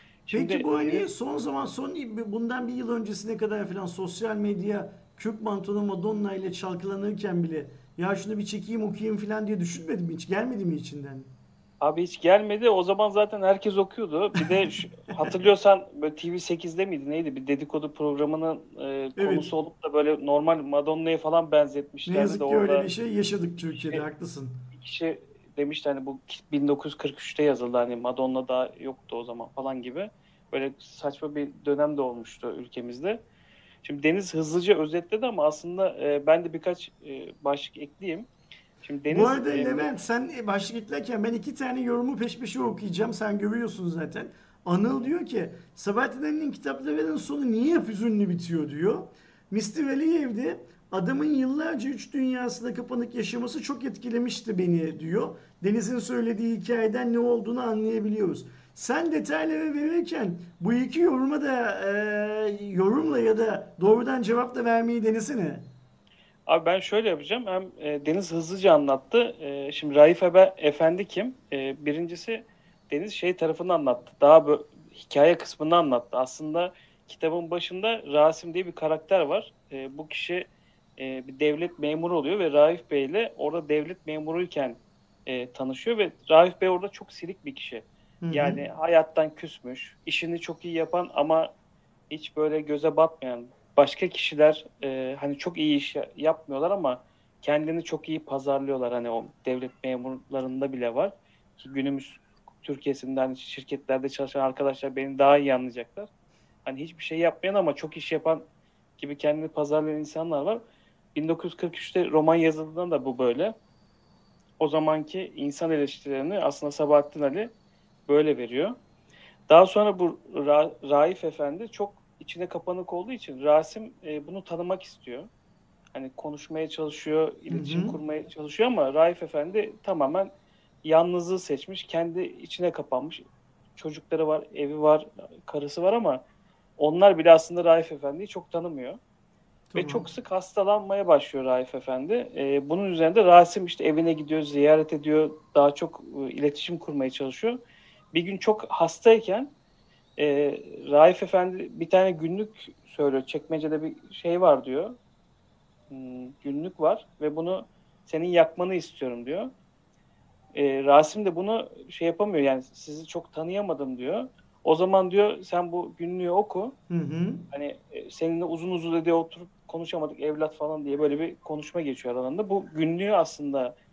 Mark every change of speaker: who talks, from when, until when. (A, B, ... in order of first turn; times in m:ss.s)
0:00.3-0:01.1 A
0:00.3-0:11.3 B
0:11.8-0:22.9 A
0:19.2-0:19.5 B
0:22.1-0:24.6 B
0:23.7-0:24.0 A
0:24.7-0:33.2 A
0:33.8-0:38.3 A
0:38.8-0:39.9 A
0:39.1-1:05.7 B
1:06.5-1:31.5 A
1:28.2-1:28.6 B
1:32.1-1:46.1 A
1:46.6-1:48.4 A
1:49.0-1:50.6 A
1:51.2-1:53.6 A
1:54.6-1:57.5 A
1:58.1-1:58.8 A
1:59.5-2:05.3 A
2:05.9-2:10.3 A
2:07.5-2:08.0 B
2:10.8-2:13.2 A
2:13.8-2:16.2 A
2:16.8-2:19.0 A
2:19.7-2:20.1 B
2:19.8-2:27.6 A
2:28.1-2:29.5 A
2:30.2-2:35.0 A
2:35.9-2:39.5 A
2:40.5-2:46.8 A
2:46.9-2:47.4 B
2:47.5-2:53.7 A